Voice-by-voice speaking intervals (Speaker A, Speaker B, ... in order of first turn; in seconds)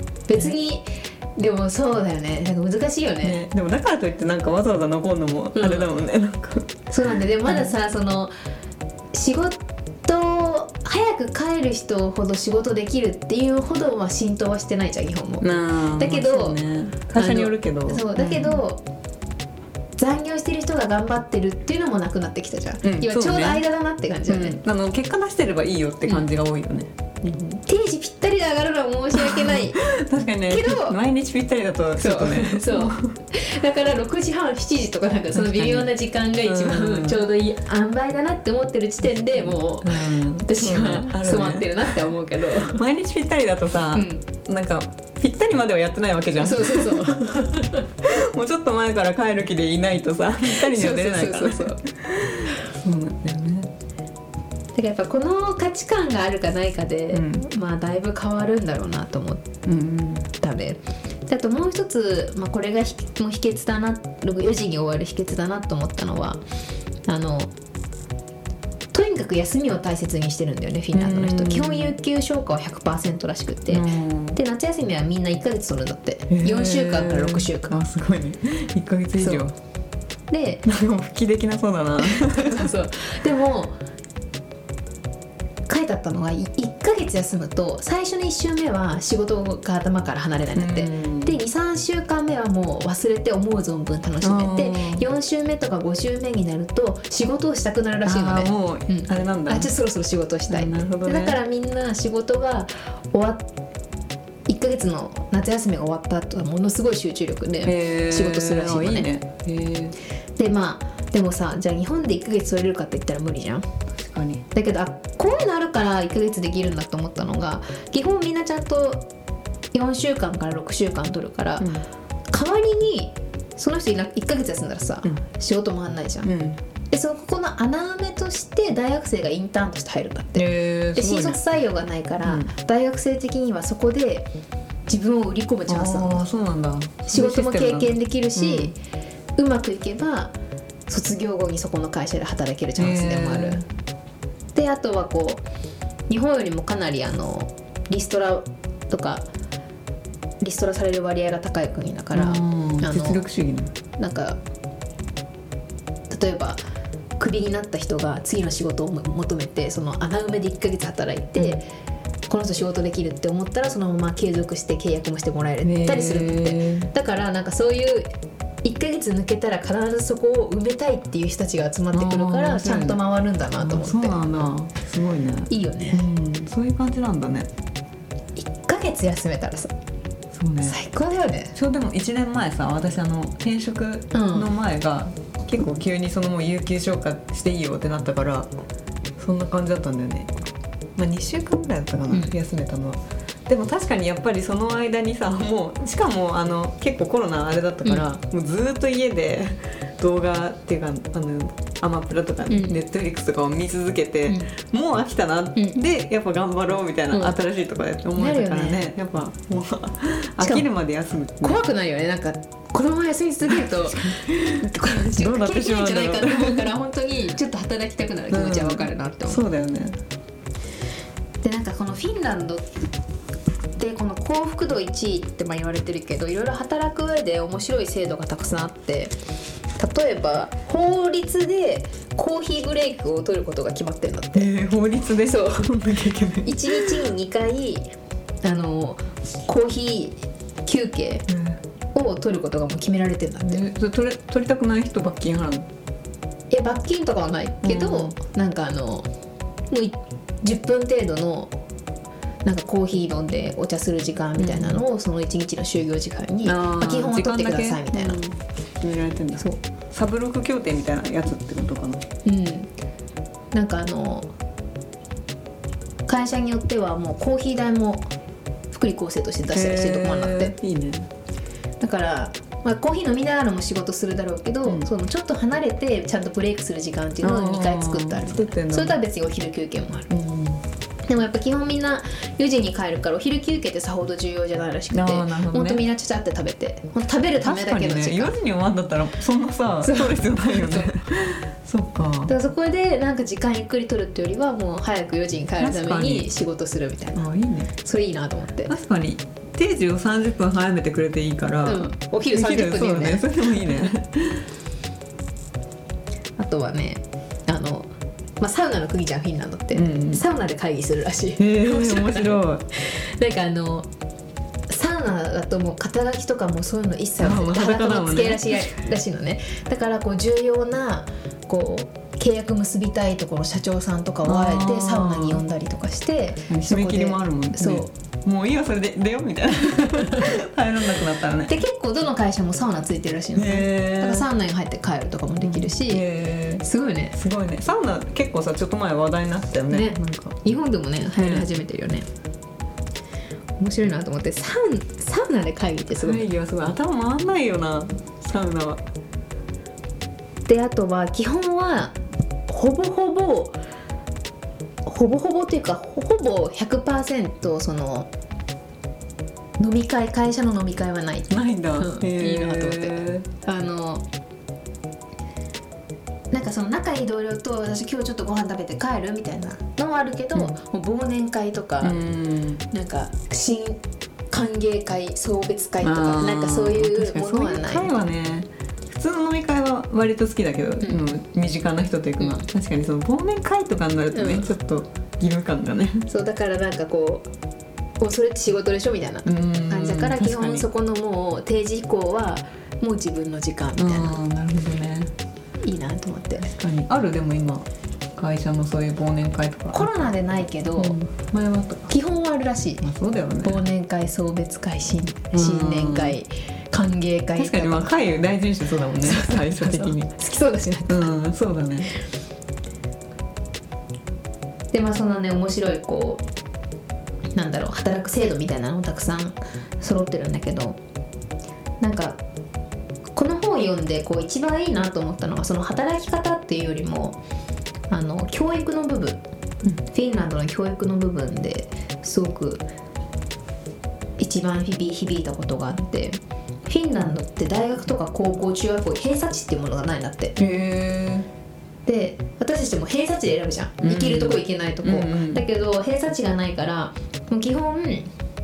Speaker A: 0.3-3.4, 5.5-5.9, 6.9-8.3, 9.1-16.6, 17.1-18.8, 20.0-24.6, 27.3-29.8, 30.5-31.0, 32.0-42.8, 43.9-44.2, 46.4-47.8, 50.5-51.8, 54.8-59.5, 60.4-66.4, 67.1-67.5, 68.9-77.8, 79.2-79.5, 80.3-80.7, 82.0-83.8, 85.7-103.5, 104.5-109.1, 110.4-113.7, 114.5-119.1, 119.7-121.7, 122.3-126.3, 126.9-134.3, 134.9-136.3, 137.1-138.8, 139.4-140.3, 140.9-143.6, 144.6-145.4, 146.1-149.3, 150.4-153.2, 154.0-154.4, 156.1-156.6, 157.2-161.7, 162.3-168.1, 168.6-174.4, 175.5-176.1, 178.4-179.7, 180.6-181.5, 184.1-184.5, 202.5-202.8, 208.2-208.8, 210.4-210.7, 211.4-219.4, 221.4-222.7, 223.8-229.1, 229.8-234.5, 235.2-235.7, 236.4-241.3, 241.9-243.7, 246.5-249.1, 249.7-251.5, 252.4-258.2, 262.2-262.7, 263.5-264.3, 266.1-268.1, 268.7-270.6, 271.8-280.1, 281.1-288.4, 289.8-290.9, 292.3-297.2, 297.8-298.7, 301.6-303.3, 306.4-307.9, 308.4-313.9, 314.7-327.9, 329.8-330.3, 331.5-336.0, 336.6-337.1, 339.7-342.1, 343.6-346.3, 350.5-351.9, 352.5-353.6, 354.9-358.1, 359.6-364.1, 366.3-372.0, 372.7-373.8, 374.3-378.0, 380.8-381.1, 384.1-384.5, 386.1-387.3, 388.0-394.2, 395.6-396.5, 399.7-401.0, 401.9-402.9, 403.4-407.9, 409.0-411.1, 414.7-416.2, 417.4-420.8, 421.8-422.2, 423.1-427.2, 427.9-429.2, 429.8-432.6, 434.2-440.4, 441.9-448.1
Speaker B: 3.2-6.7, 15.4-18.6, 22.8-23.6, 24.3-26.9, 29.1-33.1, 35.3-35.9, 36.4-37.2, 39.3-53.7, 57.1-57.5, 59.6-60.3, 70.9-72.0, 73.7-74.4, 76.3-79.5, 80.7-82.7, 90.5-91.3, 94.2-95.0, 98.0-99.7, 100.5-101.4, 107.6-110.0, 114.0-114.5, 121.6-121.8, 126.2-126.6, 130.3-131.4, 132.2-132.5, 135.7-138.7, 142.8-143.7, 152.1-153.7, 165.6-166.9, 171.9-173.0, 173.6-177.5, 180.3-180.8, 181.5-188.5, 189.2-190.3, 191.0-211.6, 213.7-216.7, 218.3-220.0, 234.3-236.9, 241.3-241.6, 243.4-245.7, 247.6-248.2, 254.4-254.8, 256.4-262.0, 269.5-271.1, 277.2-279.0, 280.1-280.6, 284.9-285.8, 287.4-292.3, 295.6-296.3, 297.2-297.7, 298.7-304.5, 309.7-310.2, 311.4-312.6, 317.2-318.6, 324.2-325.4, 326.5-331.5, 333.4-334.3, 335.4-340.4, 341.2-341.5, 346.0-348.8, 361.3-363.3, 371.8-372.6, 375.8-386.1, 389.2-390.7, 393.8-395.1, 396.4-400.1, 400.8-401.9, 402.8-403.6, 405.3-406.2, 407.4-410.1, 410.9-411.9, 440.4-441.3, 443.8-445.4